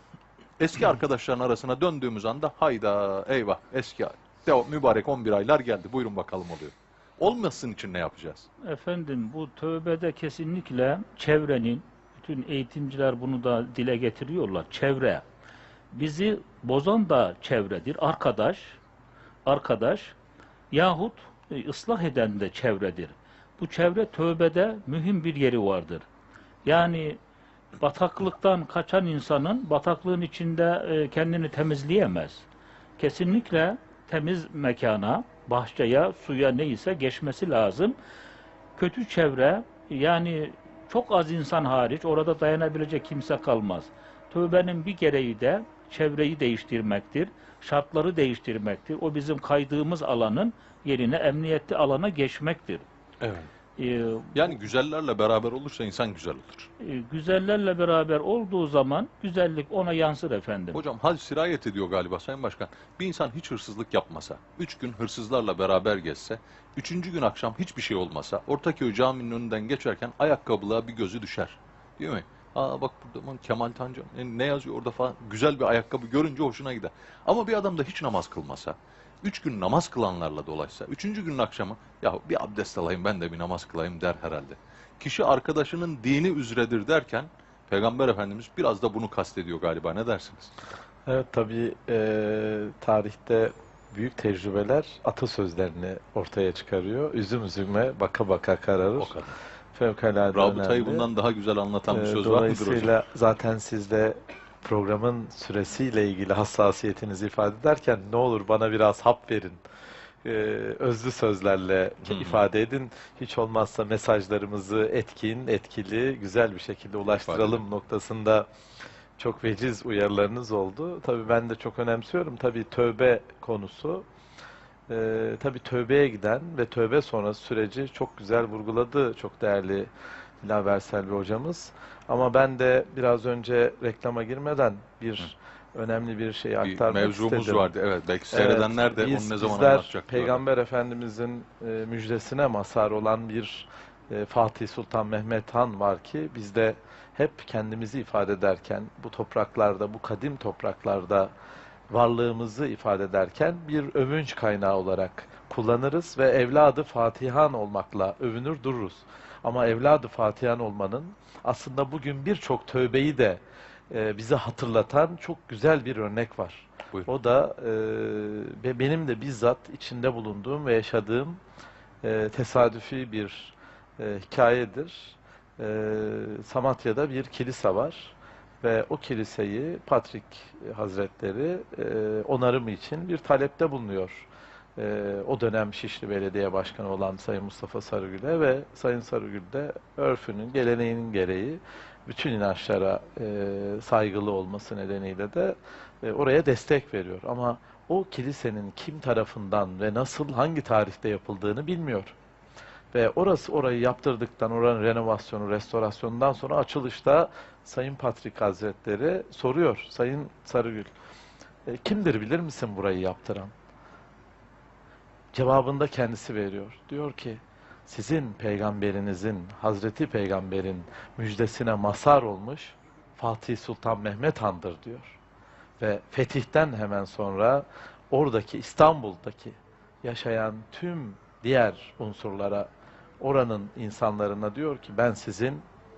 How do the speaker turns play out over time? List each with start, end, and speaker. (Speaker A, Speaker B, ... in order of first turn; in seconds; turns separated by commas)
Speaker A: 0.6-8.5, Speaker B: 8.6-15.2, Speaker B: 15.9-18.8, Speaker B: 19.4-20.1, Speaker B: 20.7-26.1, Speaker B: 26.6-27.2, Speaker B: 27.8-32.5, Speaker B: 33.0-38.0, Speaker B: 38.8-52.9, Speaker A: 53.2-53.5, Speaker B: 53.8-54.4, Speaker A: 54.3-56.7, Speaker B: 56.8-60.8, Speaker A: 60.7-90.5, Speaker C: 91.0-99.1, Speaker A: 99.0-99.3, Speaker C: 99.8-101.1, Speaker A: 100.3-103.0, Speaker C: 101.9-109.6, Speaker C: 110.2-118.5, Speaker A: 112.0-112.4, Speaker A: 117.2-117.6, Speaker C: 119.2-124.1, Speaker C: 124.9-129.9, Speaker C: 130.4-137.7, Speaker A: 136.6-140.4, Speaker C: 138.3-151.3, Speaker C: 151.9-171.4, Speaker C: 172.0-202.1, Speaker C: 202.9-210.9, Speaker C: 211.7-213.5, Speaker C: 215.3-225.2, Speaker C: 225.8-232.7, Speaker C: 233.2-235.6